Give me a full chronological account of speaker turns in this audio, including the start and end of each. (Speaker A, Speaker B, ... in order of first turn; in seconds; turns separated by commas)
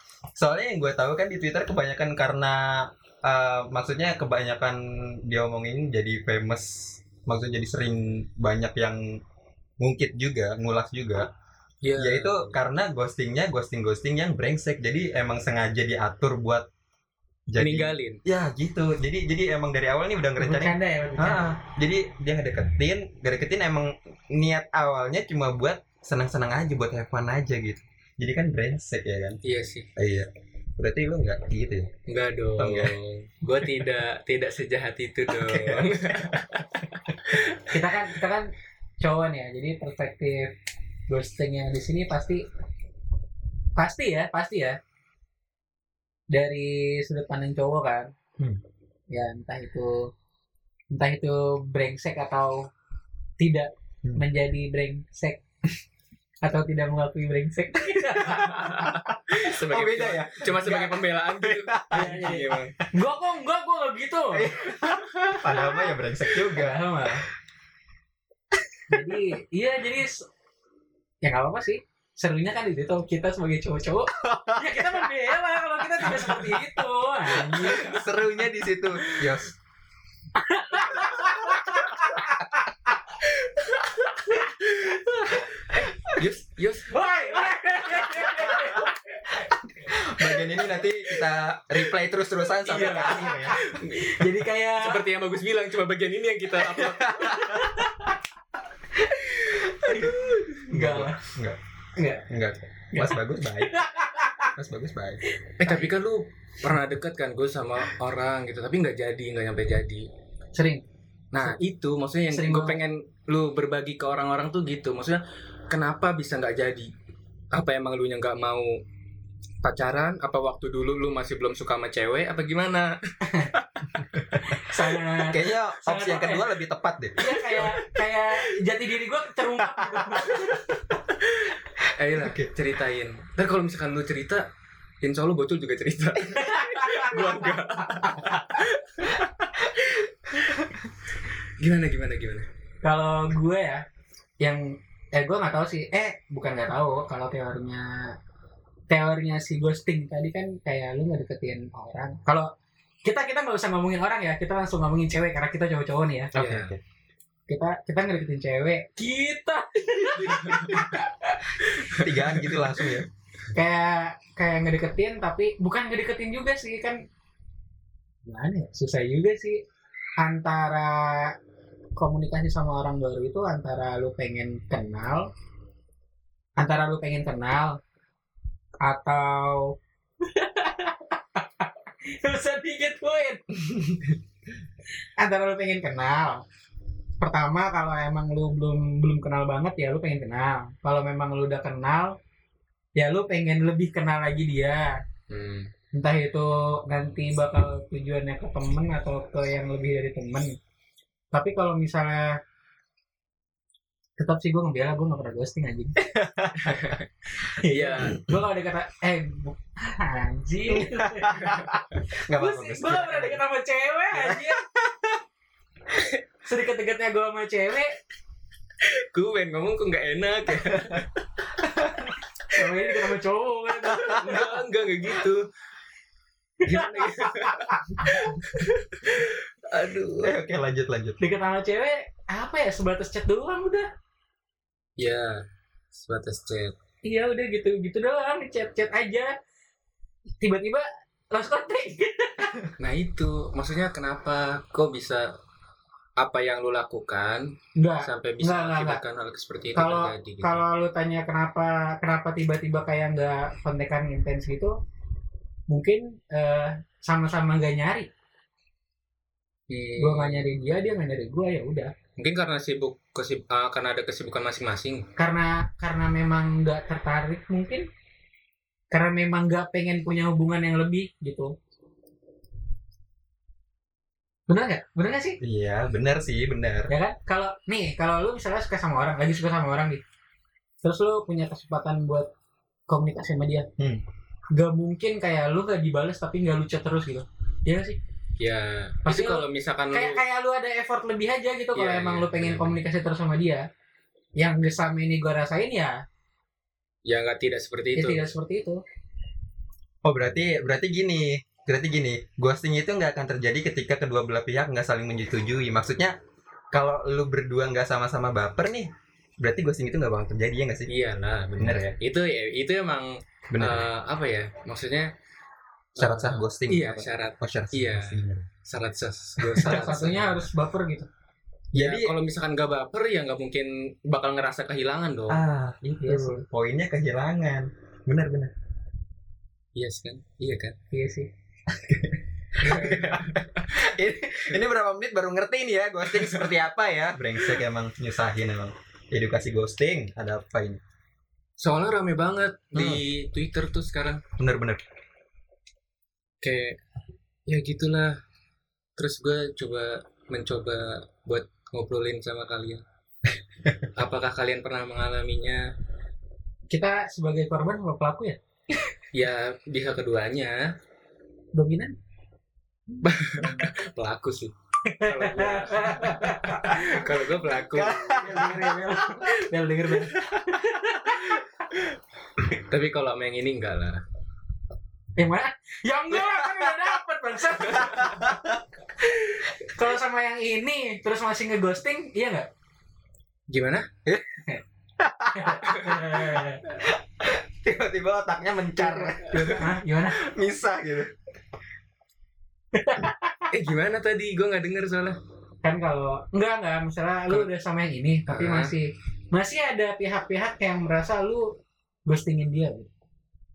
Speaker A: 0.4-9.2, Speaker A: 9.8-11.3, Speaker B: 11.8-12.5, Speaker A: 11.9-16.7, Speaker A: 17.5-29.4, Speaker B: 17.6-18.2, Speaker C: 20.4-21.5, Speaker B: 29.4-29.9, Speaker A: 30.0-31.9, Speaker B: 32.1-36.6, Speaker A: 32.6-33.0, Speaker A: 35.3-36.8, Speaker B: 37.2-37.6, Speaker C: 37.7-40.5, Speaker C: 41.1-42.5, Speaker C: 43.8-44.8, Speaker C: 46.3-48.1, Speaker C: 49.1-50.1, Speaker C: 50.9-52.7, Speaker C: 53.4-55.4, Speaker C: 56.4-58.7, Speaker A: 58.3-62.2, Speaker B: 58.4-62.8, Speaker C: 61.9-64.6, Speaker A: 64.3-66.8, Speaker C: 66.3-67.2, Speaker C: 68.9-70.3, Speaker C: 71.2-77.9, Speaker A: 74.2-74.9, Speaker A: 77.3-79.5, Speaker B: 77.6-78.0, Speaker C: 80.4-82.5, Speaker B: 83.4-87.0, Speaker C: 86.9-89.0, Speaker A: 89.9-93.6, Speaker B: 92.7-94.2, Speaker C: 92.7-95.0, Speaker B: 94.8-97.7, Speaker A: 97.0-97.6, Speaker C: 97.2-98.1, Speaker B: 99.3-100.6, Speaker A: 99.8-100.1, Speaker C: 100.7-101.2, Speaker A: 100.7-101.6, Speaker C: 102.0-102.3, Speaker A: 102.3-103.8, Speaker C: 102.9-103.2, Speaker C: 103.7-104.5, Speaker A: 104.5-105.2, Speaker B: 105.6-110.1, Speaker C: 105.6-105.9, Speaker C: 110.5-110.8, Speaker B: 111.3-116.9, Speaker C: 112.3-112.8, Speaker B: 117.5-118.8, Speaker B: 119.6-123.0, Speaker C: 123.2-123.5, Speaker C: 124.3-126.4, Speaker A: 125.2-127.8, Speaker C: 127.2-130.6, Speaker A: 129.9-130.4, Speaker B: 131.2-134.4, Speaker A: 132.1-132.5, Speaker B: 135.0-139.2, Speaker C: 136.4-138.4, Speaker A: 140.4-140.8, Speaker B: 141.6-142.5, Speaker C: 142.8-143.8, Speaker C: 144.4-148.2, Speaker C: 148.9-152.5, Speaker C: 153.1-156.3, Speaker A: 156.3-156.8, Speaker B: 156.3-156.7, Speaker C: 157.5-161.5, Speaker B: 160.3-160.8, Speaker B: 161.7-162.6, Speaker A: 161.9-163.1, Speaker C: 163.5-167.0, Speaker C: 168.3-169.6, Speaker C: 170.2-171.3, Speaker C: 172.0-175.3, Speaker C: 176.6-177.8, Speaker C: 178.8-183.5, Speaker C: 185.2-186.4, Speaker C: 187.2-192.2, Speaker C: 193.0-194.9, Speaker B: 195.3-195.7, Speaker C: 195.9-200.6, Speaker C: 201.3-202.4, Speaker C: 204.2-206.0, Speaker A: 206.0-207.0, Speaker B: 206.6-207.1, Speaker C: 207.4-211.5, Speaker B: 207.7-208.1, Speaker A: 210.7-213.4, Speaker C: 212.3-214.6, Speaker A: 214.1-215.2, Speaker C: 216.4-218.0, Speaker B: 218.8-221.1, Speaker A: 220.7-221.0, Speaker A: 221.6-222.1, Speaker C: 222.5-224.5, Speaker A: 223.9-224.5, Speaker B: 224.0-225.5, Speaker C: 226.7-228.4, Speaker B: 226.7-230.3, Speaker A: 230.2-231.2, Speaker C: 231.2-233.9, Speaker B: 235.0-236.7, Speaker C: 237.0-239.3, Speaker C: 240.4-242.7, Speaker B: 242.8-245.3, Speaker B: 246.2-250.6, Speaker C: 247.8-249.0, Speaker C: 249.8-254.8, Speaker C: 255.7-258.1, Speaker B: 259.7-260.5, Speaker C: 260.0-261.9, Speaker B: 262.2-265.1, Speaker C: 265.2-267.9, Speaker C: 268.9-271.6, Speaker C: 274.5-275.4, Speaker A: 275.4-276.9, Speaker C: 276.9-280.0, Speaker C: 280.8-282.3, Speaker C: 282.9-283.7, Speaker C: 284.6-288.0, Speaker B: 288.4-290.2, Speaker C: 289.1-293.6, Speaker B: 291.8-292.8, Speaker C: 294.4-296.0, Speaker B: 297.1-298.3, Speaker C: 298.0-298.8, Speaker A: 300.0-306.2, Speaker A: 306.7-310.9, Speaker B: 310.9-315.1, Speaker A: 311.6-312.0, Speaker A: 313.5-313.9, Speaker B: 315.9-320.4, Speaker A: 316.0-318.5, Speaker A: 319.4-319.9, Speaker C: 319.6-321.1, Speaker A: 321.7-322.1, Speaker B: 321.8-325.4, Speaker A: 325.3-328.5, Speaker C: 326.0-326.4, Speaker B: 329.8-330.8, Speaker C: 330.9-331.3, Speaker A: 331.7-340.8, Speaker B: 332.6-333.4, Speaker B: 336.1-336.5, Speaker B: 341.6-344.2, Speaker A: 342.8-343.0, Speaker A: 344.4-344.8, Speaker B: 346.4-346.8, Speaker B: 347.5-348.2, Speaker B: 349.0-352.8, Speaker B: 354.0-355.7, Speaker C: 356.7-358.4, Speaker B: 359.1-360.7, Speaker C: 361.6-361.9, Speaker B: 363.0-368.4, Speaker C: 364.9-367.1, Speaker A: 367.7-368.9, Speaker C: 368.2-371.4, Speaker B: 372.5-374.0, Speaker C: 375.2-378.3, Speaker A: 377.8-378.6, Speaker C: 379.6-382.5, Speaker B: 383.5-383.9, Speaker A: 384.1-384.4, Speaker A: 385.0-391.1, Speaker C: 385.3-386.6, Speaker C: 388.8-390.2, Speaker B: 389.3-389.6, Speaker C: 392.8-393.5, Speaker B: 393.5-395.2, Speaker C: 395.6-401.5, Speaker B: 398.3-398.7, Speaker C: 402.1-402.9